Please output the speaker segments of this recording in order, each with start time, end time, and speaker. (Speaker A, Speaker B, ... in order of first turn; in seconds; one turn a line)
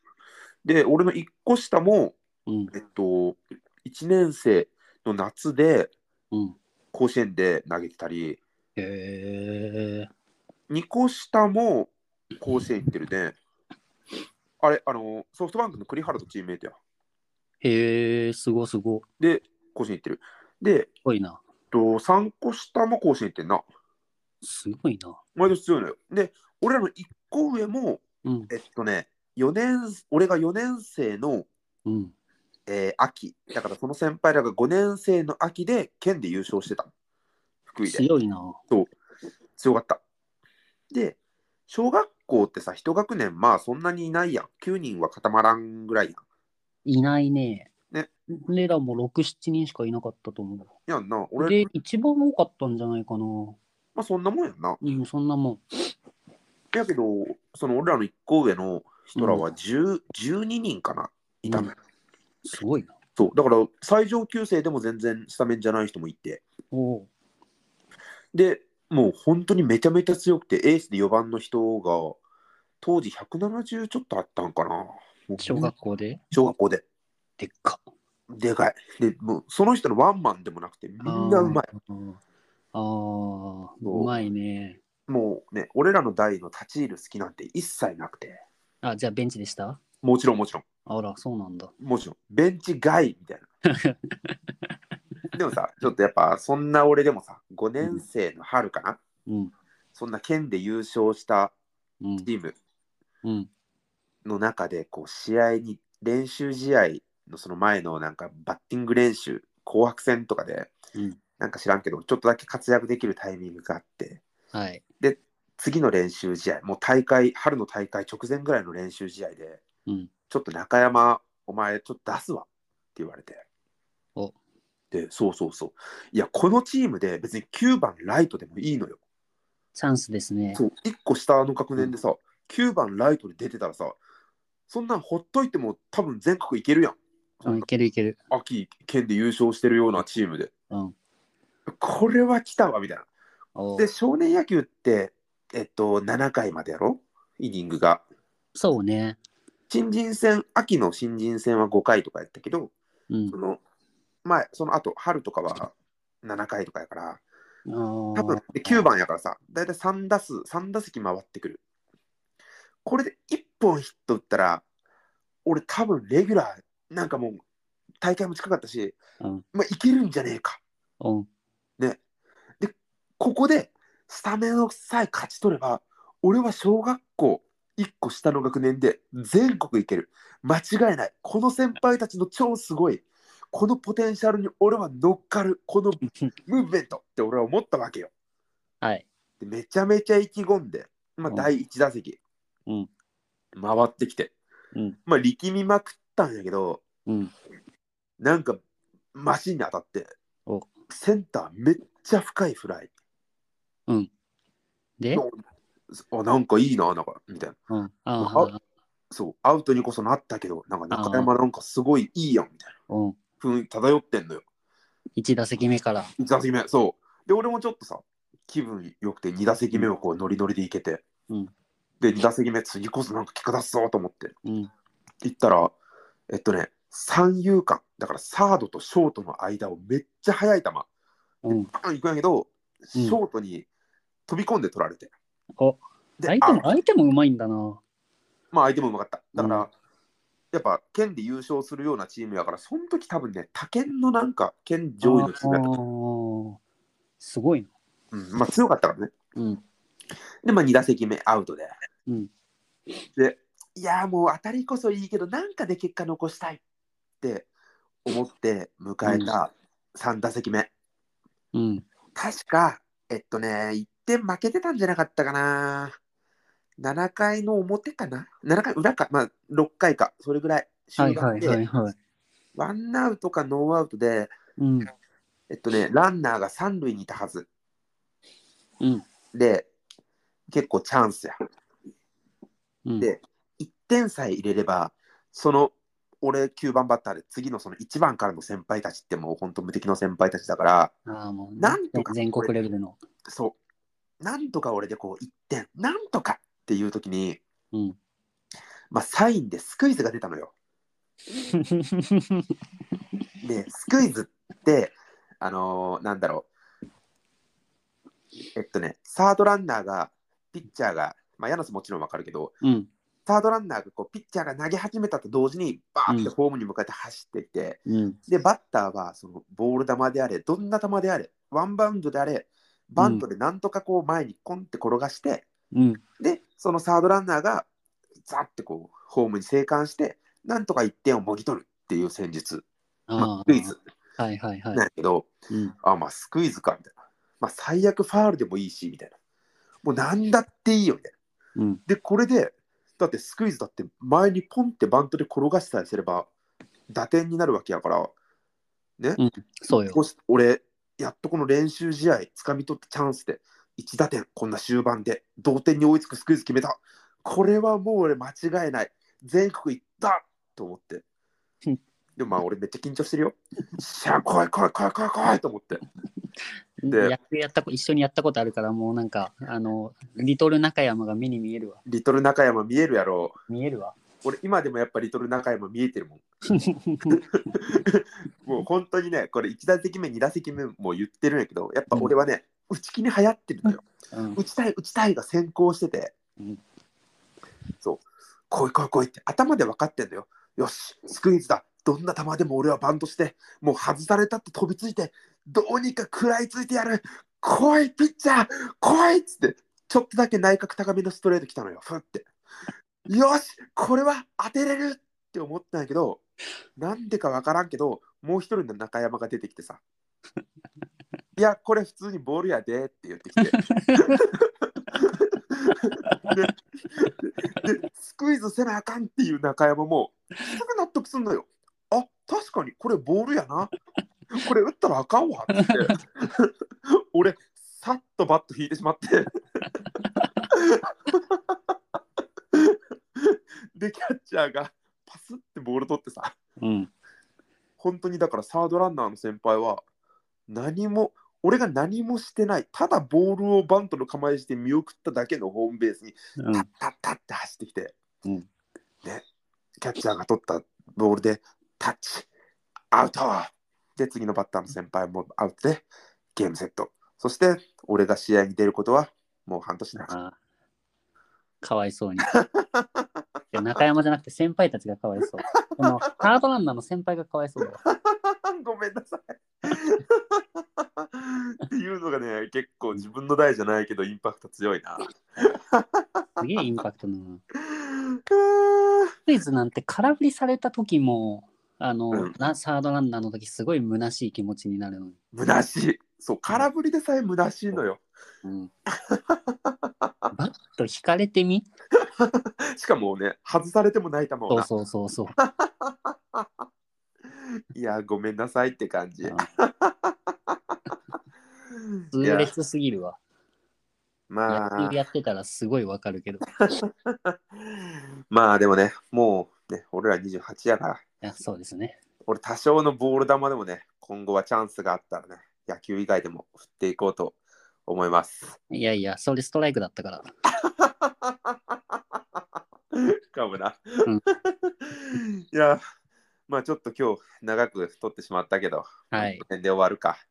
Speaker A: 0.6-2.2
Speaker B: 2.5-2.7
Speaker A: 2.7-5.9
Speaker B: 6.3-6.6
Speaker A: 6.9-8.4
Speaker B: 8.8-10.1
Speaker A: 10.7-13.4
Speaker A: 14.6-16.8
Speaker B: 17.6-19.1
Speaker A: 19.2-20.9
Speaker B: 21.0-21.4
Speaker A: 21.7-23.6
Speaker B: 24.4-25.2
Speaker A: 25.4-31.5
Speaker B: 28.2-28.5
Speaker B: 31.9-32.1
Speaker A: 32.7-36.9
Speaker A: 37.7-38.1
Speaker B: 37.9-38.6
Speaker A: 39.6-40.0
Speaker A: 40.9-46.2
Speaker B: 46.9-47.7
Speaker B: 48.3-50.7
Speaker A: 50.9-51.7
Speaker B: 51.4-53.6
Speaker A: 54.0-54.8
Speaker B: 54.8-55.6
Speaker A: 56.7-61.8
Speaker B: 59.2-59.5
Speaker B: 61.5-61.7
Speaker B: 62.4-62.9
Speaker A: 63.2-66.4
Speaker B: 66.7-67.1
Speaker A: 68.3-72.2
Speaker A: 72.8-75.7
Speaker B: 75.4-76.2
Speaker A: 76.3-76.8
Speaker B: 77.4-77.9
Speaker A: 78.3-81.7
Speaker B: 81.0-82.2
Speaker B: 82.7-84.8
Speaker A: 83.8-84.2
Speaker A: 85.1-88.4
Speaker B: 88.8-89.8
Speaker A: 90.0-90.7
Speaker B: 90.9-91.7
Speaker A: 91.8-93.5
Speaker B: 93.8-94.5
Speaker A: 95.3-99.0
Speaker B: 99.3-99.5
Speaker A: 100.0-101.5
Speaker B: 102.0-102.3
Speaker A: 102.2-102.5
Speaker B: 103.2-103.5
Speaker A: 104.2-110.8
Speaker A: 111.4-114.2
Speaker B: 114.5-114.8
Speaker A: 115.0-119.6
Speaker B: 119.9-120.1
Speaker A: 120.3-123.4
Speaker A: 124.9-129.0
Speaker B: 129.8-130.6
Speaker A: 130.6-134.0
Speaker A: 134.7-137.7
Speaker B: 137.4-138.2
Speaker A: 138.3-140.5
Speaker B: 140.7-140.9
Speaker A: 141.7-143.1
Speaker B: 143.6-143.9
Speaker A: 143.8-148.0
Speaker B: 148.6-149.2
Speaker A: 149.7-152.7
Speaker B: 153.1-153.4
Speaker A: 153.3-153.6
Speaker A: 154.2-155.7
Speaker A: 156.2-157.2
Speaker B: 157.7-158.8
Speaker A: 158.2-161.6
Speaker A: 162.8-164.6
Speaker A: 165.4-167.4
Speaker A: 168.0-169.0
Speaker A: 169.5-170.6
Speaker B: 171.0-171.3
Speaker A: 172.6-188.1
Speaker B: 186.0-186.3
Speaker B: 188.8-189.1
Speaker A: 189.4-192.2
Speaker A: 193.6-194.3
Speaker A: 195.1-196.8
Speaker B: 197.1-197.3
Speaker A: 198.2-198.6
Speaker A: 199.2-200.1
Speaker A: 200.9-202.9
Speaker B: 205.0-205.2
Speaker A: 205.1-205.4
Speaker A: 205.9-207.6
Speaker B: 207.7-208.6
Speaker A: 208.2-208.5
Speaker A: 209.1-212.7
Speaker B: 210.9-211.3
Speaker B: 212.9-213.2
Speaker A: 213.4-214.4
Speaker B: 215.2-216.1
Speaker A: 216.2-221.0
Speaker A: 222.0-224.3
Speaker B: 224.4-224.7
Speaker A: 225.2-225.8
Speaker A: 226.3-230.9
Speaker B: 231.4-231.7
Speaker A: 231.5-233.7
Speaker B: 232.9-233.2
Speaker A: 234.3-235.1
Speaker B: 235.6-237.8
Speaker A: 236.2-236.7
Speaker A: 238.5-239.7
Speaker B: 239.4-239.7
Speaker A: 240.5-245.7
Speaker B: 245.0-246.6
Speaker B: 247.2-247.7
Speaker A: 248.1-249.1
Speaker B: 249.4-249.6
Speaker A: 250.4-251.7
Speaker A: 253.2-256.6
Speaker A: 257.2-257.5
Speaker A: 258.1-260.7
Speaker B: 259.0-259.3
Speaker B: 261.5-261.9
Speaker A: 262.2-266.0
Speaker A: 266.8-271.6
Speaker B: 271.0-271.9
Speaker A: 272.6-274.3
Speaker B: 274.6-274.9
Speaker A: 275.5-277.5
Speaker A: 279.3-279.7
Speaker A: 280.5-281.4
Speaker B: 282.9-283.1
Speaker A: 283.0-290.9
Speaker B: 291.1-293.0
Speaker A: 291.6-292.5
Speaker A: 293.3-293.6
Speaker A: 294.2-297.4
Speaker B: 297.7-298.0
Speaker A: 298.9-300.5
Speaker B: 301.5-302.5
Speaker A: 303.4-306.5
Speaker A: 308.6-312.6
Speaker B: 312.6-312.9
Speaker A: 313.3-325.5
Speaker B: 317.9-318.2
Speaker B: 323.0-323.2
Speaker B: 325.7-326.0
Speaker A: 326.2-327.7
Speaker A: 328.3-332.6
Speaker B: 333.1-334.9
Speaker A: 333.2-333.8
Speaker A: 334.7-335.3
Speaker B: 335.5-335.8
Speaker A: 335.8-339.1
Speaker A: 339.8-341.1
Speaker A: 341.9-346.3
Speaker A: 346.9-348.1
Speaker B: 349.2-350.0
Speaker A: 349.9-361.0
Speaker A: 362.2-365.8
Speaker B: 366.8-371.8
Speaker A: 366.9-367.2
Speaker A: 371.9-373.3
Speaker B: 373.5-374.0
Speaker A: 374.2-376.2
Speaker B: 376.5-377.3
Speaker A: 377.6-383.8
Speaker B: 383.7-384.4
Speaker A: 384.4-386.1
Speaker A: 387.8-402.3
Speaker A: 403.1-406.2
Speaker A: 406.8-409.8
Speaker A: 411.4-414.4
Speaker B: 413.4-414.2
Speaker A: 414.9-423.7
Speaker B: 416.1-416.5
Speaker A: 424.4-429.3
Speaker B: 425.5-425.8
Speaker B: 430.0-430.5
Speaker A: 430.8-431.4
Speaker A: 432.5-436.3
Speaker B: 436.6-436.9
Speaker A: 437.8-439.8
Speaker A: 440.5-447.9
Speaker B: 446.4-446.7
Speaker A: 449.8-452.3
Speaker A: 452.9-460.1
Speaker B: 460.1-460.4
Speaker B: 461.6-462.4
Speaker A: 462.3-463.0
Speaker B: 463.5-467.8
Speaker A: 465.5-466.0
Speaker A: 467.9-476.6
Speaker B: 476.4-477.4
Speaker A: 477.7-479.1
Speaker B: 479.3-485.2
Speaker A: 485.3-488.0
Speaker B: 488.4-488.7
Speaker A: 489.1-490.1
Speaker B: 490.3-491.7
Speaker A: 492.2-494.7
Speaker B: 494.5-495.3
Speaker A: 495.4-496.5
Speaker A: 497.7-500.1
Speaker B: 502.1-503.2
Speaker A: 502.2-502.5
Speaker A: 504.3-504.9
Speaker B: 504.5-506.5
Speaker A: 506.7-507.7
Speaker A: 508.3-511.0
Speaker B: 511.2-512.0
Speaker A: 512.3-518.6
Speaker B: 518.7-520.3
Speaker A: 520.8-521.5
Speaker A: 523.3-525.8
Speaker A: 526.5-530.2
Speaker B: 529.1-529.5